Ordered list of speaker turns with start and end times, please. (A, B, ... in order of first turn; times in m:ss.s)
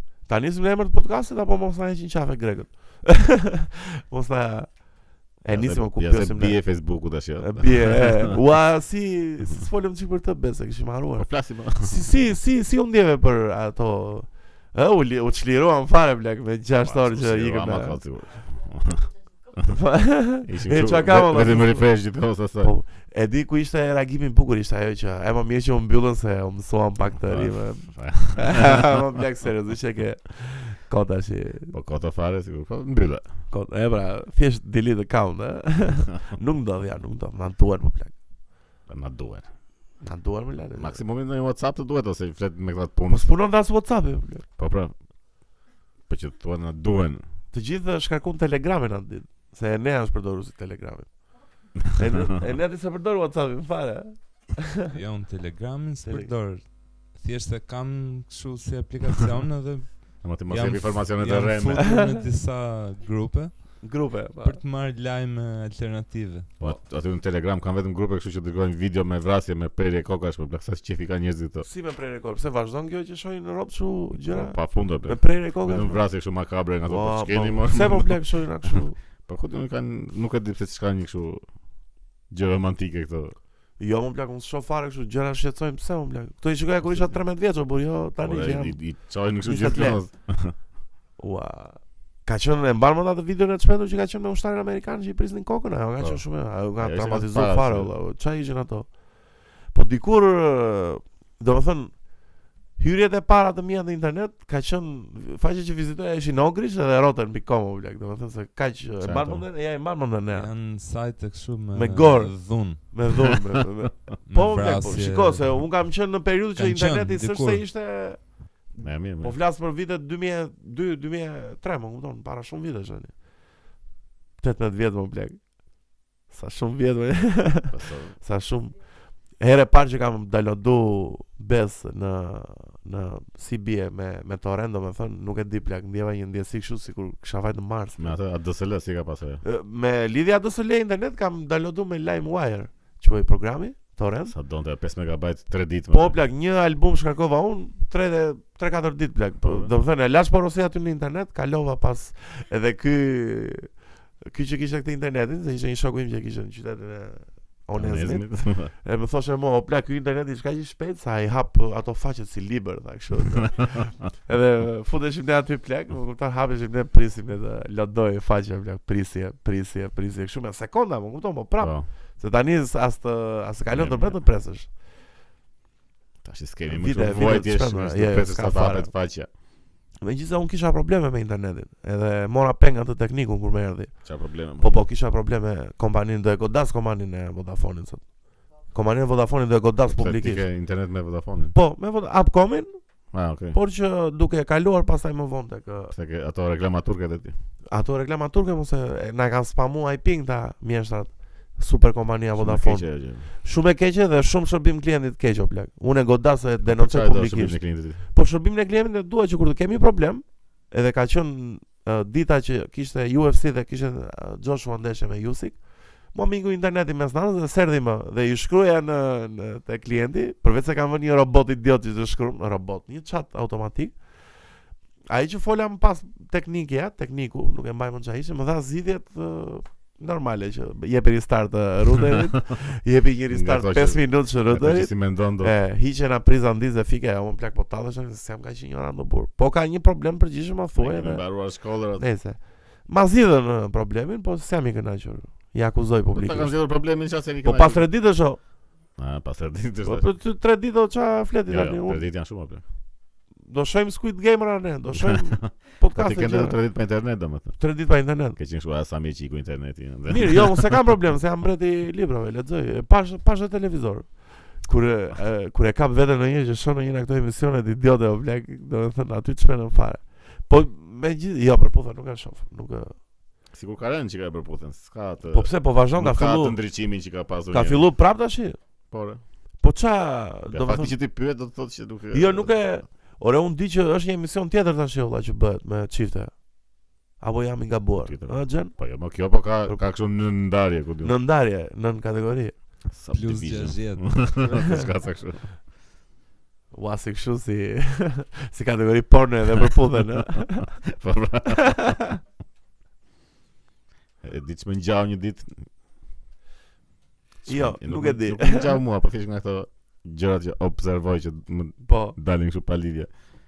0:00.2-0:06.8 A
0:05.5-0:08.4 B
0:07.4-0:18.0 A
0:11.2-0:12.0 B
0:16.8-0:19.7 B
0:19.7-0:21.9 A
0:20.4-0:22.7 B
0:22.6-0:31.7 A
0:27.2-0:29.0 B
0:31.7-0:33.2 B
0:33.5-0:38.1 A
0:38.9-0:39.5 B
0:40.0-0:41.0 A
0:40.7-0:43.3 B
0:43.1-0:44.4 A
0:44.6-0:44.9 B
0:46.1-0:47.2 B
0:47.5-0:51.3 A
0:51.9-0:54.9 A
0:54.9-1:06.5 C
0:56.0-0:56.3 A
1:00.2-1:01.9 B
1:01.8-1:02.2 A
1:03.8-1:04.6 A
1:06.6-1:11.7 B
1:11.6-1:16.0 A
1:14.2-1:18.2 B
1:16.9-1:19.0 A
1:19.3-1:21.4 B
1:22.3-1:23.3 B
1:23.8-1:28.8 A
1:26.8-1:27.2 B
1:28.2-1:30.6 B
1:29.4-1:30.0 A
1:31.2-1:38.9 A
1:36.0-1:37.9 B
1:39.7-1:42.1 A
1:42.8-1:50.5 A
1:49.0-1:49.4 B
1:50.3-1:52.8 C
1:51.7-2:03.1 A
1:54.2-1:55.5 C
1:56.6-1:57.6 C
1:58.8-1:59.3 B
2:04.4-2:05.6 A
2:06.3-2:08.7 A
2:07.7-2:08.1 B
2:09.4-2:18.2 A
2:18.0-2:19.4 B
2:19.4-2:24.3 A
2:24.3-2:26.2 B
2:25.9-2:33.7 A
2:29.4-2:29.7 B
2:34.3-2:54.7 A
2:37.8-2:38.7 B
2:43.3-2:43.9 B
2:51.6-2:51.9 B
2:53.7-2:54.2 B
2:56.2-2:59.3 B
2:56.7-2:58.9 A
3:00.0-3:08.0 A
3:04.0-3:04.8 B
3:08.7-3:10.4 A
3:09.9-3:11.5 B
3:11.5-3:12.8 A
3:13.1-3:13.6 B
3:13.5-3:15.9 A
3:15.9-3:17.3 B
3:17.7-3:35.6 A
3:22.4-3:23.3 B
3:26.6-3:28.0 B
3:36.1-3:43.9 A
3:45.1-4:01.3 A
3:53.3-3:55.5 B
4:00.8-4:02.0 B
4:02.0-4:06.6 A
4:06.1-4:07.9 B
4:07.4-4:08.4 A
4:09.0-4:10.0 B
4:09.8-4:12.0 A
4:11.5-4:12.6 B
4:13.5-4:16.6 A
4:14.9-4:17.6 B
4:17.6-4:18.4 A
4:18.4-4:20.8 B
4:20.1-4:32.9 A
4:33.5-4:37.9 B
4:35.3-4:36.6 A
4:37.5-4:38.6 A
4:38.9-4:39.2 B
4:39.6-4:41.0 A
4:40.5-4:42.5 B
4:42.1-4:46.4 A
4:47.2-4:48.7 A
4:48.0-4:51.1 B
4:51.0-4:52.6 A
4:52.9-4:55.5 B
4:53.1-4:54.6 C
4:56.7-5:00.7 A
5:00.3-5:02.0 B
5:01.5-5:02.2 A
5:04.2-5:05.7 B
5:07.4-5:13.1 B
5:07.5-5:08.8 A
5:11.8-5:12.2 A